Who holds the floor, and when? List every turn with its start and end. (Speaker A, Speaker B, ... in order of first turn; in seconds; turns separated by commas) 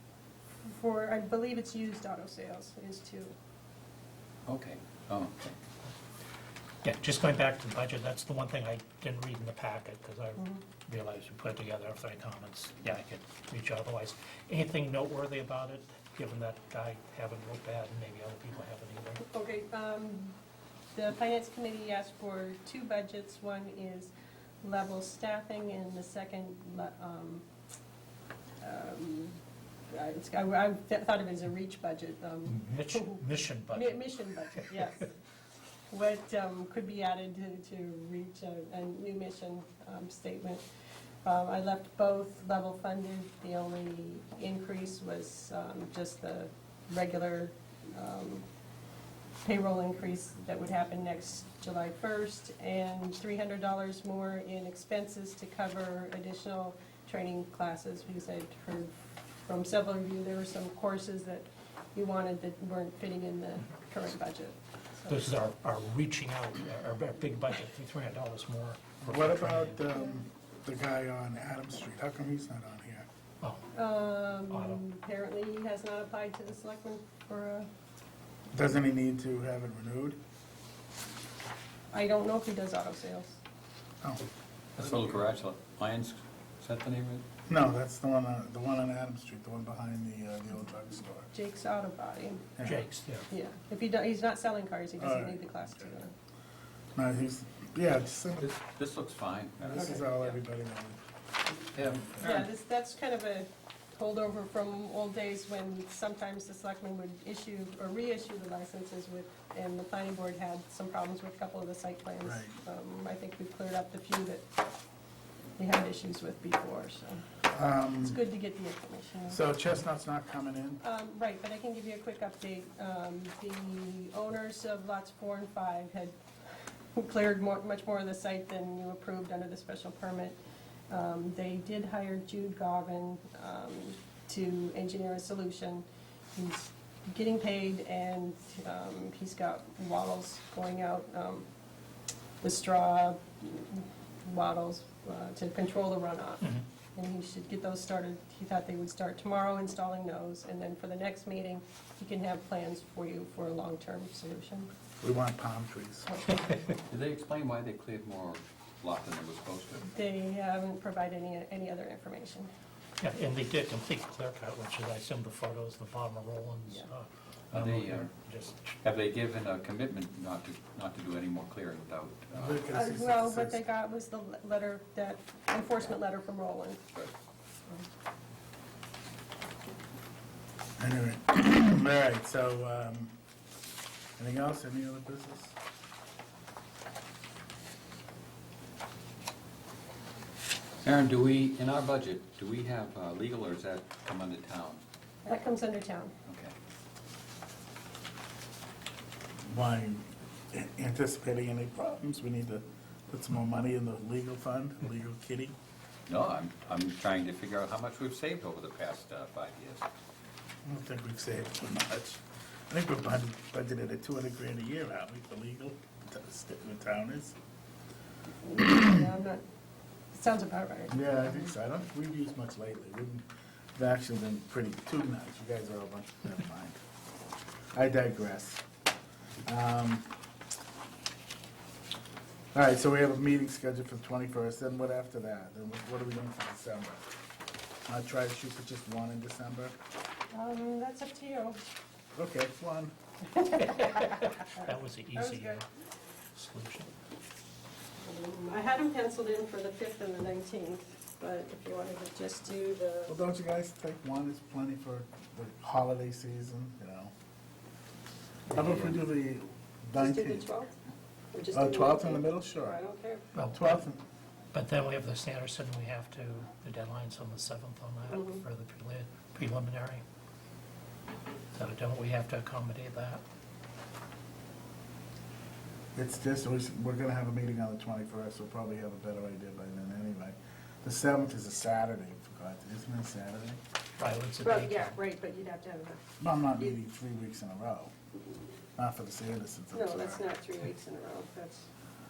Speaker A: 0.6-3.3, Speaker B: 4.5-5.5, Speaker C: 6.8-19.2, Speaker A: 10.4-10.6, Speaker A: 19.2-20.4, Speaker A: 20.9-24.1, Speaker A: 24.6-27.4, Speaker A: 28.6-29.4, Speaker A: 29.9-35.1, Speaker C: 32.5-34.7, Speaker A: 35.9-40.6, Speaker A: 41.2-48.5, Speaker A: 49.4-65.3, Speaker C: 65.1-69.8, Speaker D: 69.0-73.1, Speaker A: 73.7-77.7, Speaker C: 74.5-74.8, Speaker D: 78.5-80.2, Speaker A: 81.9-83.4, Speaker B: 84.8-87.2, Speaker D: 87.5-91.3, Speaker A: 91.3-92.5, Speaker D: 92.6-92.8, Speaker C: 92.6-93.3, Speaker A: 93.3-96.1, Speaker D: 95.0-96.0, Speaker D: 97.0-98.5, Speaker B: 98.4-100.4, Speaker D: 99.6-101.0, Speaker B: 101.7-102.5, Speaker A: 102.2-114.5, Speaker D: 112.2-112.5, Speaker A: 115.6-117.2, Speaker D: 117.5-118.2, Speaker A: 118.0-119.4, Speaker D: 119.3-120.8, Speaker A: 120.8-126.1, Speaker A: 127.0-130.4, Speaker A: 130.9-141.4, Speaker A: 142.4-154.7, Speaker D: 155.0-156.1, Speaker A: 156.1-156.6, Speaker B: 156.9-159.9, Speaker A: 159.9-162.5, Speaker C: 163.0-168.7, Speaker B: 167.5-168.1, Speaker B: 168.8-172.7, Speaker D: 172.3-173.6, Speaker A: 172.7-176.8, Speaker D: 180.8-183.1, Speaker D: 184.2-185.5, Speaker B: 190.8-194.8, Speaker A: 195.2-196.1, Speaker B: 196.2-196.5, Speaker D: 199.5-205.5, Speaker B: 206.1-209.8, Speaker D: 210.6-217.3, Speaker A: 218.4-219.4, Speaker D: 218.6-218.9, Speaker A: 220.1-221.5, Speaker D: 220.9-226.8, Speaker D: 227.7-228.6, Speaker D: 229.4-230.1, Speaker D: 232.5-237.1, Speaker D: 237.9-239.7, Speaker A: 240.3-241.6, Speaker D: 242.1-242.9, Speaker A: 243.3-245.6, Speaker C: 243.8-245.6, Speaker C: 246.3-246.9, Speaker A: 248.0-253.2, Speaker D: 253.1-257.1, Speaker D: 258.5-260.5, Speaker A: 259.9-260.7, Speaker A: 261.3-263.3, Speaker D: 261.5-262.8, Speaker C: 263.3-263.8, Speaker D: 263.5-264.0, Speaker C: 264.5-270.0, Speaker A: 268.1-268.4, Speaker C: 271.5-273.2, Speaker D: 275.9-283.6, Speaker C: 284.0-285.0, Speaker A: 284.4-286.0, Speaker D: 286.2-287.9, Speaker D: 288.8-290.2, Speaker A: 289.7-291.7